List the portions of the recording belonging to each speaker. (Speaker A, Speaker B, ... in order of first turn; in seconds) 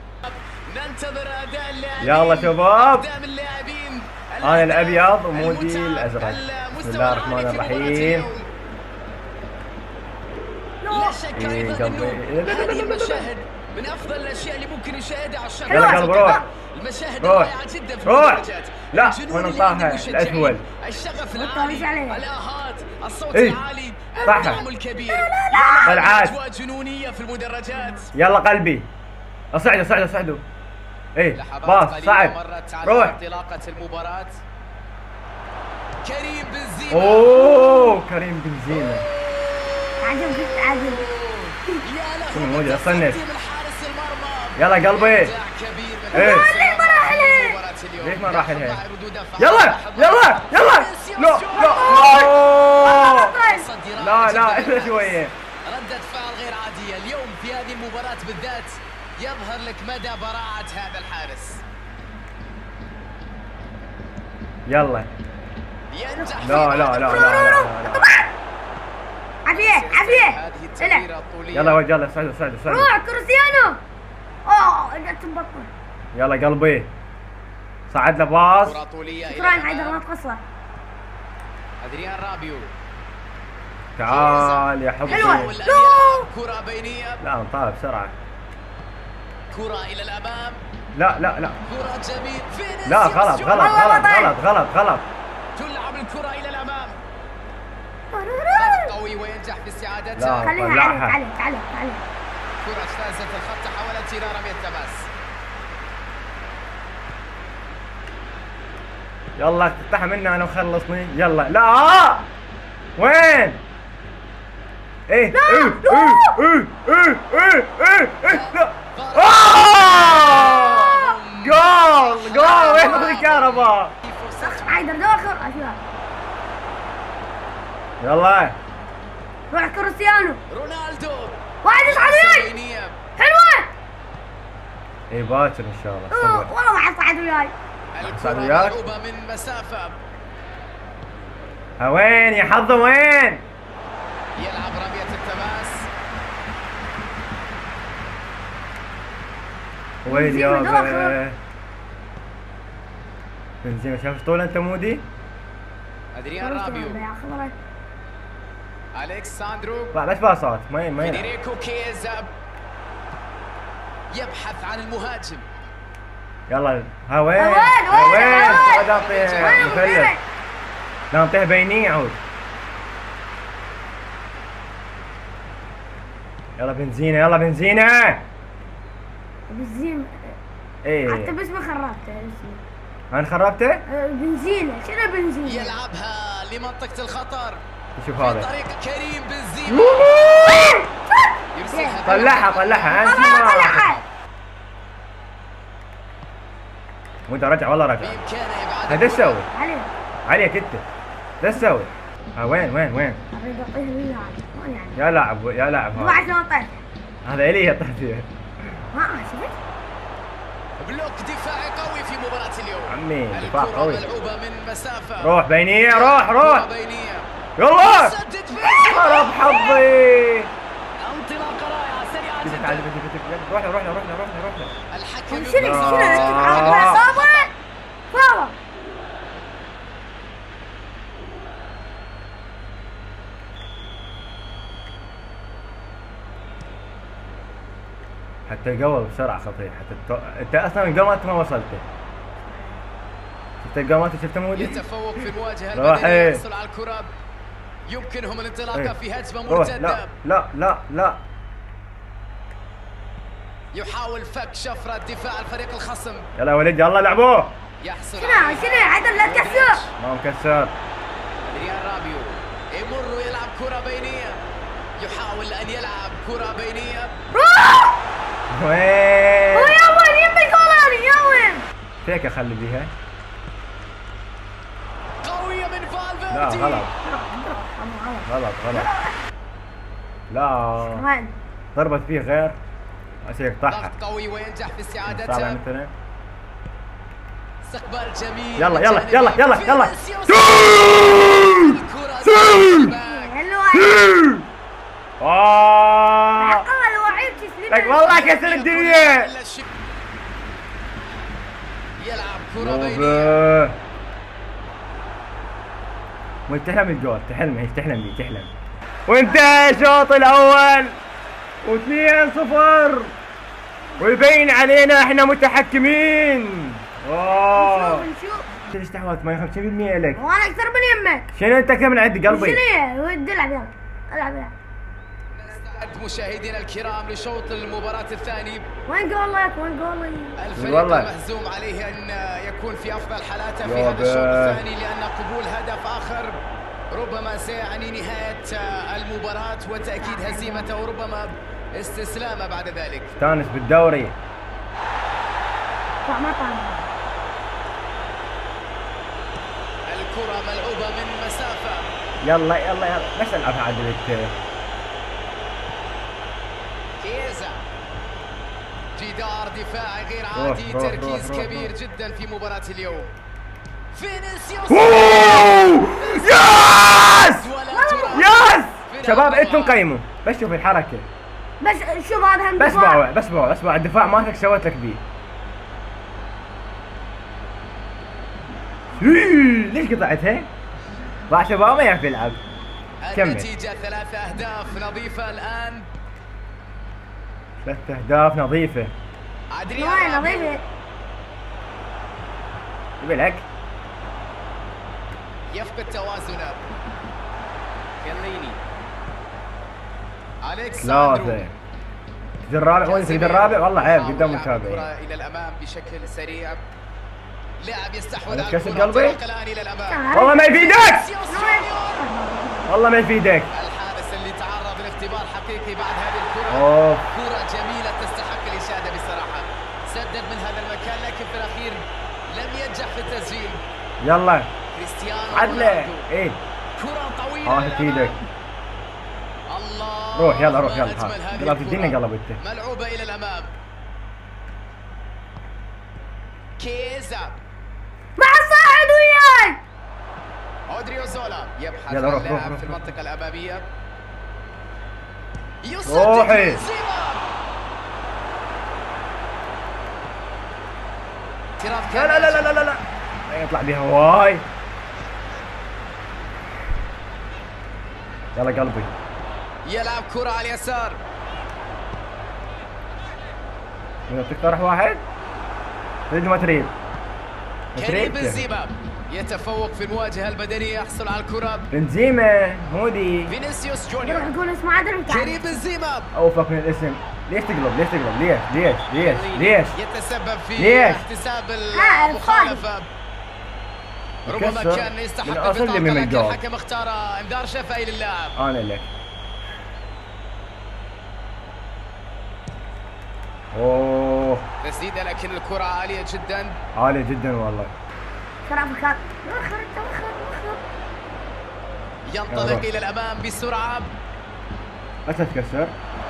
Speaker A: 0.2-8.5, 10.9-28.1, 31.4-34.4, 36.0-37.4, 38.7-52.3, 53.4-61.6, 65.9-67.7, 69.5-71.8, 78.6-80.0, 81.8-82.7, 84.0-87.2, 89.5-90.6, 91.7-94.0, 95.6-97.0, 98.5-100.5, 102.6-105.1, 118.2-124.8, 130.5-133.0, 137.9-140.0, 144.4-145.9, 156.2-157.0, 158.9-159.9, 161.0-162.3, 164.1-165.5, 167.9-170.1, 185.4-187.6, 188.2-190.8, 191.5-194.0, 198.0-199.5, 210.8-219.9, 221.0-222.9, 224.9-227.5, 244.6-247.1, 247.9-250.2, 253.7-256.3, 257.8-259.9, 261.4-264.4, 265.0-267.2, 275.2-276.9, 283.7-285.6, 287.6-293.4, 298.0-299.7, 302.0-303.4, 325.3-328.7, 330.4-343.1, 349.9-351.9, 357.0-357.6, 359.0-363.1, 363.9-369.8, 383.0-385.9, 389.5-390.6, 395.5-396.7, 398.0-398.6, 400.4-401.4, 402.8-406.6, 407.6-412.1, 413.5-423.6, 424.7-426.1, 426.8-428.2, 429.5-433.5, 436.6-437.4, 440.7-443.7, 445.6-447.2, 451.6-452.6, 459.6-461.0, 467.8-471.7, 473.3-474.3, 475.1-476.1, 479.0-482.9, 484.3-488.4, 494.6-496.6, 502.1-503.9
Speaker B: 2.0-3.1, 4.4-8.3, 11.3-13.3, 15.7-16.4, 17.2-20.6, 23.3-23.6, 24.2-24.6, 25.9-26.4, 28.1-28.9, 29.5-30.4, 31.1-33.2, 36.9-39.1, 42.3-43.2, 44.6-45.3, 46.1-46.5, 48.0-48.8, 49.4-53.4, 54.0-55.3, 64.7-65.1, 66.4-68.1, 71.5-72.9, 76.1-76.9, 77.9-78.8, 84.0-85.5, 87.2-88.2, 91.0-91.6, 92.8-95.1, 100.2-101.2, 109.4-112.3, 113.0-113.6, 115.1-123.9, 128.0-128.6, 135.1-136.5, 138.0-138.8, 141.8-143.4, 150.0-151.4, 153.6-155.0, 159.9-161.3, 166.5-170.2, 171.1-172.2, 176.6-178.2, 180.8-181.3, 183.1-183.8, 188.0-188.5, 189.7-190.4, 192.1-194.0, 197.3-198.2, 198.9-199.5, 200.3-200.8, 201.4-203.2, 205.0-206.2, 207.2-208.3, 212.9-214.1, 215.2-216.7, 217.6-220.5, 222.4-224.7, 225.6-227.1, 238.5-241.9, 243.6-244.8, 245.7-246.4, 249.5-251.2, 256.4-257.6, 260.0-260.8, 268.5-269.8, 272.0-272.9, 276.3-276.9, 278.3-278.9, 280.3-281.1, 281.8-282.6, 283.2-283.9, 285.1-285.9, 288.6-293.0, 293.7-294.4, 295.2-296.7, 297.7-299.3, 302.6-303.8, 306.5-308.5, 309.1-311.0, 311.6-313.1, 314.0-318.1, 318.7-320.2, 321.3-322.6, 330.6-331.1, 333.6-334.6, 343.2-344.2, 352.2-354.4, 360.3-361.7, 364.7-367.5, 368.1-371.1, 372.6-375.0, 379.0-380.5, 381.3-382.4, 383.1-383.5, 387.6-388.9, 393.0-393.5, 400.8-401.5, 402.4-404.9, 408.3-409.2, 410.1-411.1, 412.7-413.5, 416.5-417.1, 424.0-424.5, 425.3-426.4, 427.4-428.2, 430.1-432.4, 441.9-442.8, 445.9-446.6, 451.9-454.4, 458.4-458.9, 464.1-465.0, 466.1-466.7, 467.8-468.4, 471.7-473.3, 476.1-479.8, 480.6-481.1, 484.3-486.4, 488.4-488.9, 493.5-494.4, 496.8-497.7, 502.3-502.7, 505.1-505.7
Speaker C: 10.8-11.2, 15.7-16.5, 21.4-22.2, 24.4-26.0, 27.7-28.0, 37.4-38.0, 40.0-41.1, 46.1-47.6, 51.5-53.7, 66.2-68.3, 69.5-71.0, 72.7-73.8, 74.5-75.7, 79.3-80.4, 85.1-86.3, 93.5-94.4, 98.1-98.9, 100.4-102.0, 115.3-116.4, 122.5-123.1, 124.4-125.8, 129.5-130.4, 131.6-132.5, 133.2-133.7, 136.1-137.5, 150.1-151.2, 156.4-157.5, 167.4-168.9, 169.4-170.2, 179.5-180.4, 181.1-182.6, 183.9-185.8, 190.1-192.2, 192.9-194.0, 199.5-199.9, 203.3-205.0, 206.0-206.8, 208.9-209.6, 225.3-227.5, 228.1-228.6, 258.2-259.8, 267.3-267.9, 269.5-271.7, 277.0-279.1, 280.8-281.4, 293.0-294.2, 296.4-298.1, 317.5-318.5, 320.2-321.3, 322.3-324.5, 328.9-330.4, 340.0-340.7, 346.1-346.9, 367.7-368.2, 371.6-373.0, 389.8-390.6, 409.9-410.6, 411.3-412.7, 438.2-439.6, 474.0-475.6, 481.7-482.6, 498.5-500.6